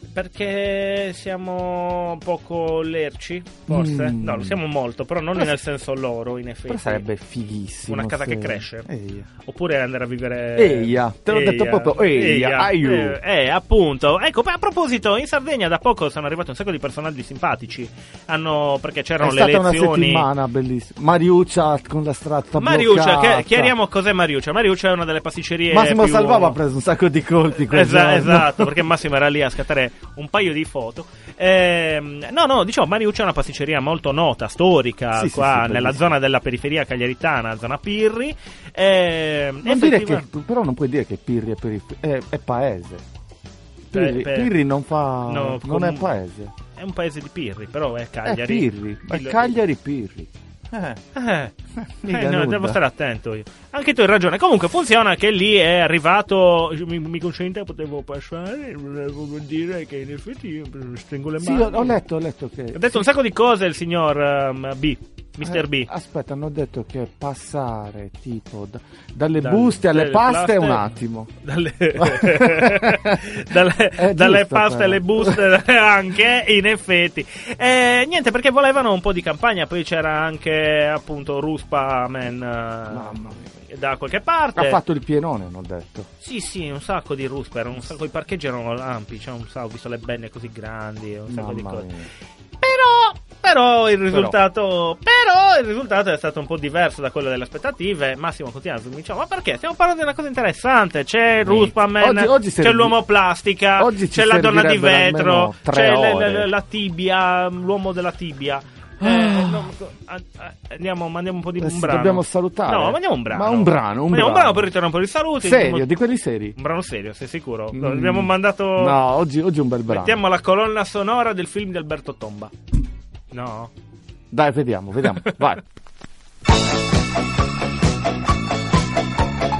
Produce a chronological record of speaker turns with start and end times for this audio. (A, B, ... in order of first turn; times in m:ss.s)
0:00.2-0:07.0 A
0:03.7-0:04.6 B
0:06.7-0:09.3 B
0:07.9-0:08.9 A
0:09.5-0:20.3 A
0:10.6-0:13.2 B
0:19.2-0:23.7 B
0:22.6-0:26.6 A
0:25.7-0:28.9 B
0:27.7-0:40.3 A
0:35.1-0:36.2 B
0:39.6-0:43.0 B
0:43.9-0:46.5 B
0:43.9-0:44.5 A
0:45.3-0:46.2 A
0:46.8-0:49.6 A
0:48.2-0:51.0 B
0:51.2-0:51.5 A
0:51.8-0:52.8 B
0:52.0-1:02.0 A
1:01.4-1:03.0 B
1:02.7-1:05.9 A
1:05.4-1:11.3 B
1:09.4-1:10.9 A
1:11.4-1:24.8 A
1:12.0-1:13.3 B
1:13.9-1:15.4 B
1:22.9-1:23.5 B
1:24.6-1:26.1 B
1:26.2-1:31.9 A
1:31.3-1:32.1 B
1:32.6-1:55.9 A
1:34.1-1:34.4 B
1:41.4-1:43.0 B
1:43.8-1:46.5 B
1:49.0-1:49.7 B
1:51.6-1:54.7 B
1:55.4-1:56.6 B
1:56.6-1:59.0 A
1:57.7-2:00.2 B
1:59.9-2:02.5 A
2:03.3-2:03.7 A
2:04.3-2:05.6 B